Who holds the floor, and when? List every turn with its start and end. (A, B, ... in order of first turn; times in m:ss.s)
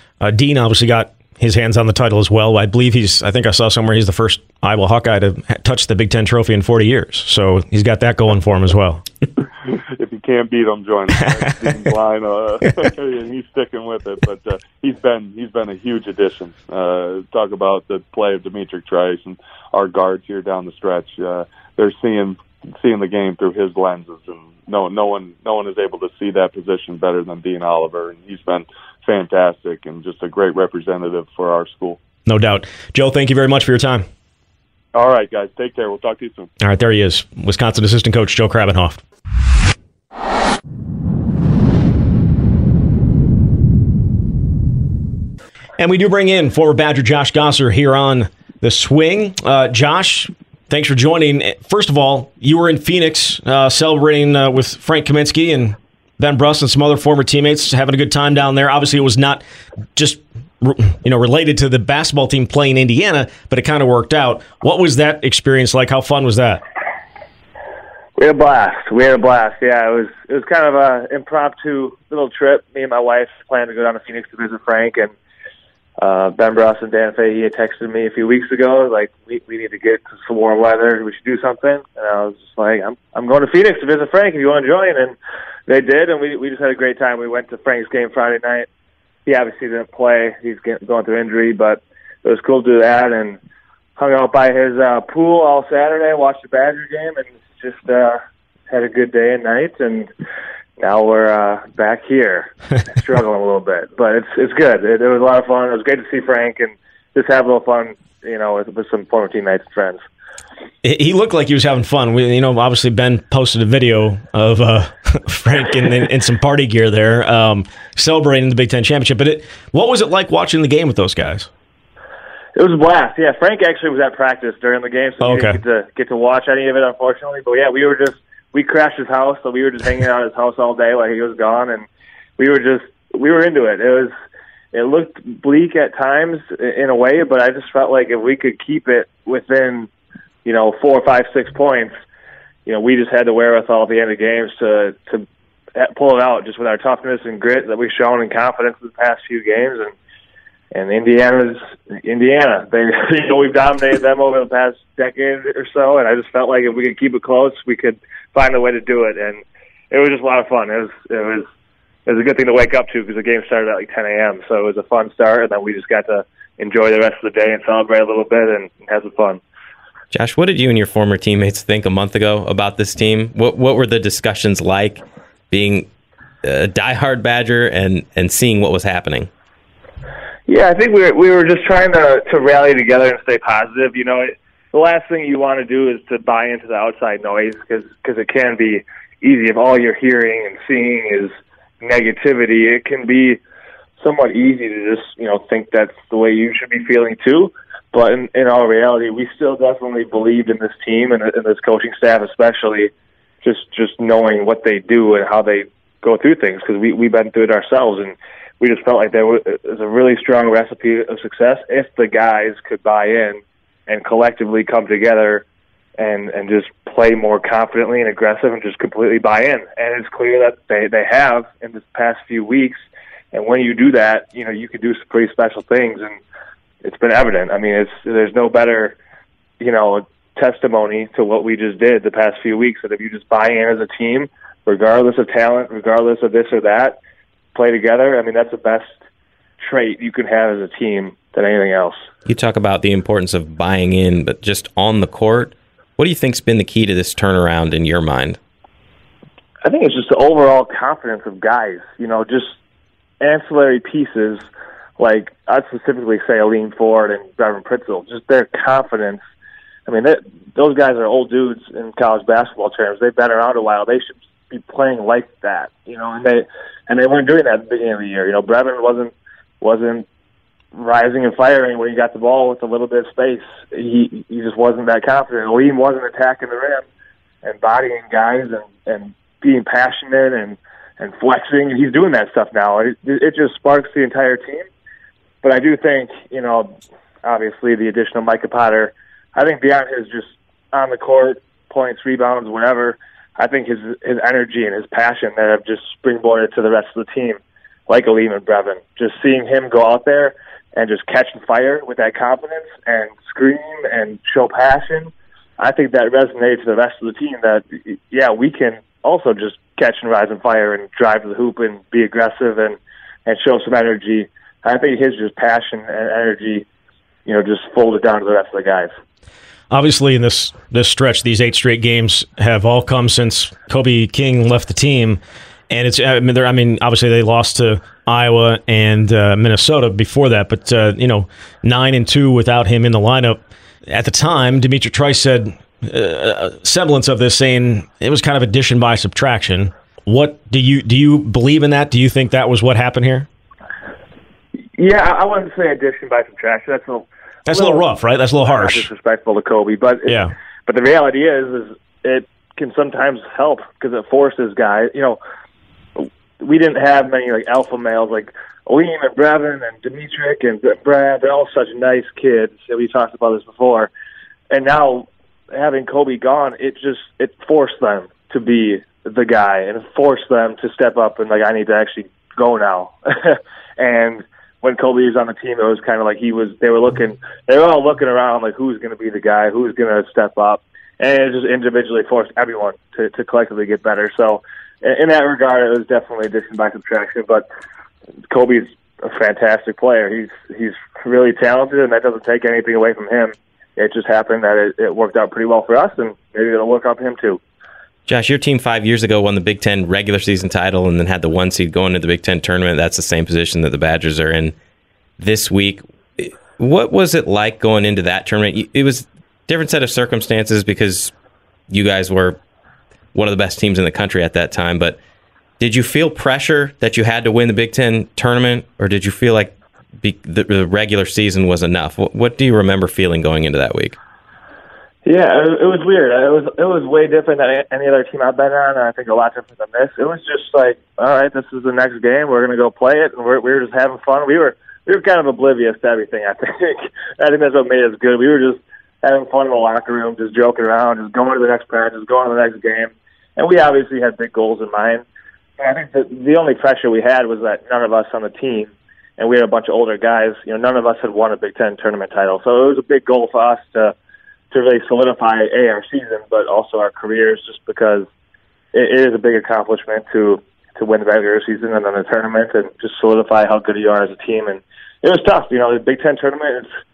0:00.2-0:09.0 A
0:09.7-0:32.0 B
0:32.3-0:34.1 A
0:34.9-0:36.5 B
0:36.6-0:39.0 A
0:45.8-0:59.4 A
1:00.0-1:06.6 A
1:08.2-1:15.1 C
1:16.0-1:25.2 C
1:25.7-1:28.7 C
1:29.3-1:33.4 C
1:34.0-1:38.2 C
1:38.7-1:40.1 C
1:40.8-1:50.0 C
1:50.8-2:01.5 A
2:02.6-2:11.9 C
2:05.2-2:05.6 A
2:12.4-2:14.1 C
2:14.7-2:19.9 C
2:20.4-2:21.9 C
2:22.7-2:29.9 C
2:30.7-2:41.5 C
2:42.1-2:49.4 C
2:50.1-2:55.9 D
2:56.4-2:59.3 D
3:00.5-3:13.4 C
3:14.0-3:22.9 C
3:23.4-3:35.4 C
3:36.0-3:46.2 C
3:46.8-3:49.0 C
3:49.6-3:57.0 C
3:57.6-3:59.0 C
3:59.6-4:02.0 C
4:02.3-4:08.4 D
4:09.6-4:12.6 C
4:13.2-4:14.5 C
4:15.0-4:19.2 C
4:19.9-4:30.1 C
4:30.7-4:36.8 C
4:37.4-4:44.7 C
4:45.4-5:16.7 C
5:17.3-5:18.9 C
5:19.7-5:43.3 A
5:44.8-5:47.8 C
5:47.5-5:48.9 A
5:48.5-5:55.2 C
5:50.1-5:50.3 A
5:56.0-6:03.9 C
6:04.5-6:27.4 C
6:28.3-6:37.4 C
6:38.1-6:44.6 D
6:45.2-6:51.1 D
6:51.7-6:52.4 D
6:53.1-6:55.0 D
6:55.6-7:04.0 D
7:05.0-7:25.0 C
7:25.6-7:33.9 C
7:34.5-7:38.1 C
7:38.7-7:46.7 C